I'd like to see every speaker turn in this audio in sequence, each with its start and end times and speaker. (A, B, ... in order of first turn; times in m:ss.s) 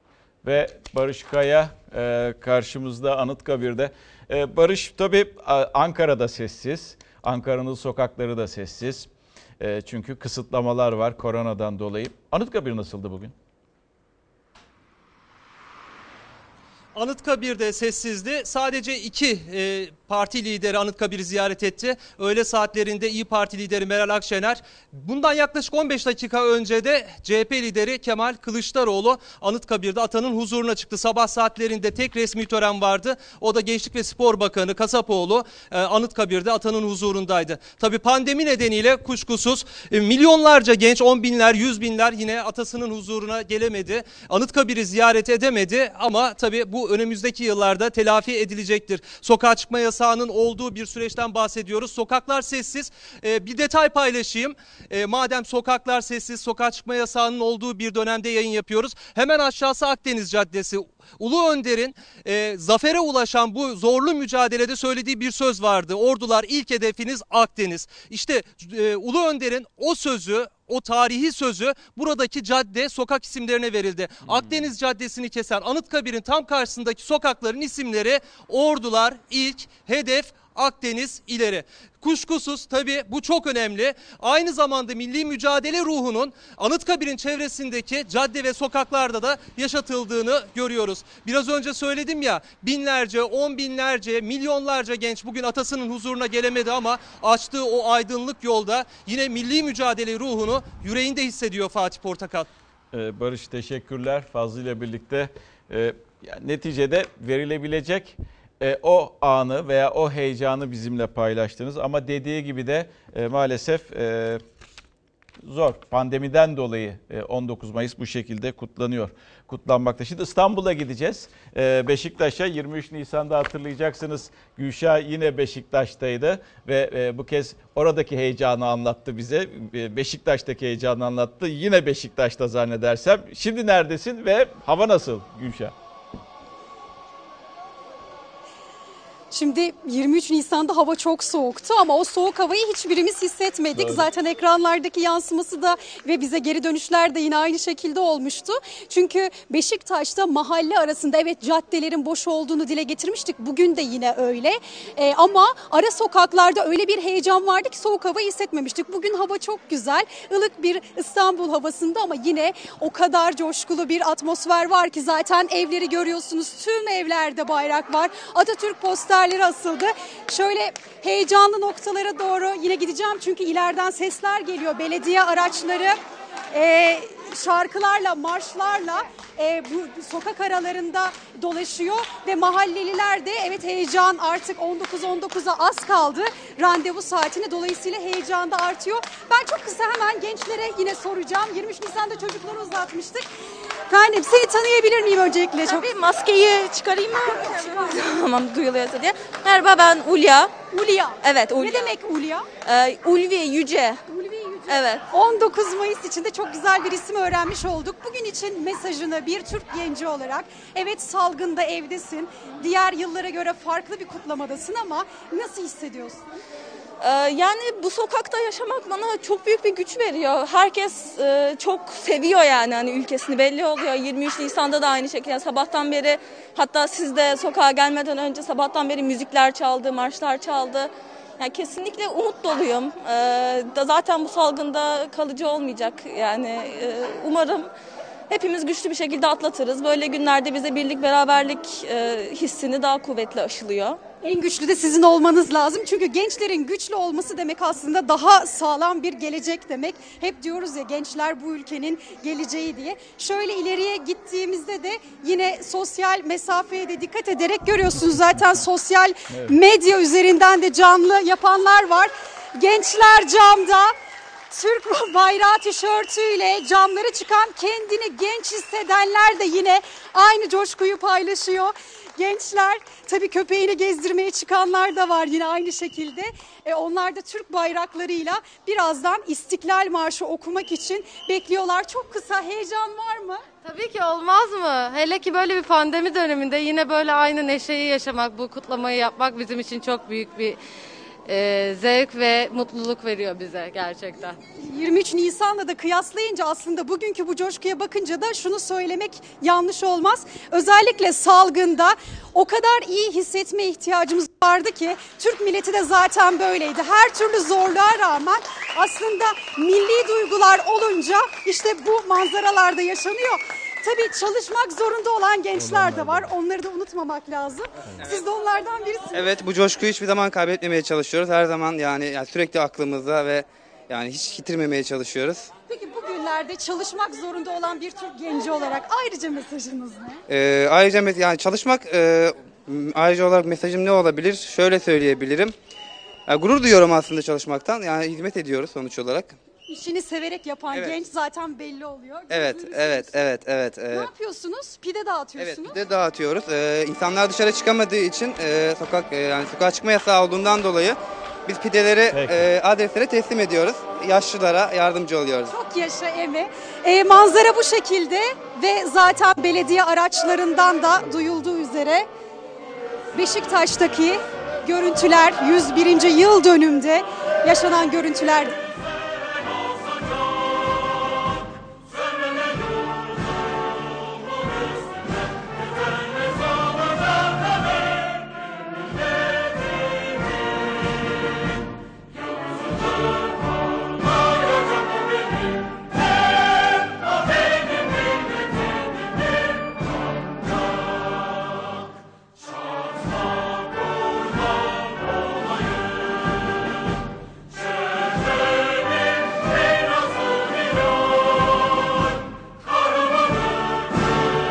0:00.4-0:13.4 A
0:16.9-1:42.5 B
1:42.9-1:54.4 A
1:55.4-2:15.7 A
2:19.3-2:56.0 C
2:23.8-2:24.0 A
2:56.5-3:13.2 C
3:13.9-3:15.9 C
3:15.7-3:20.5 D
3:17.2-3:18.0 C
3:20.7-3:22.5 C
3:21.2-3:21.9 D
3:22.6-3:24.0 D
3:24.1-3:36.3 C
3:24.7-3:25.0 D
3:37.0-3:57.7 D
3:58.3-4:04.0 D
4:04.2-4:23.9 C
4:19.3-4:19.6 A
4:24.5-4:43.4 C
4:43.6-4:50.6 E
4:51.3-4:54.4 E
4:54.6-5:19.3 C
5:15.6-5:16.3 A
5:19.1-5:25.5 F
5:25.7-5:30.2 C
5:30.3-5:35.5 F
5:36.3-5:39.4 F
5:39.7-5:43.2 C
5:40.7-5:41.0 F
5:42.3-5:44.1 F
5:43.9-5:45.8 C
5:45.4-5:55.6 F
5:52.1-5:52.5 A
5:55.5-6:02.1 C
6:03.1-6:08.6 C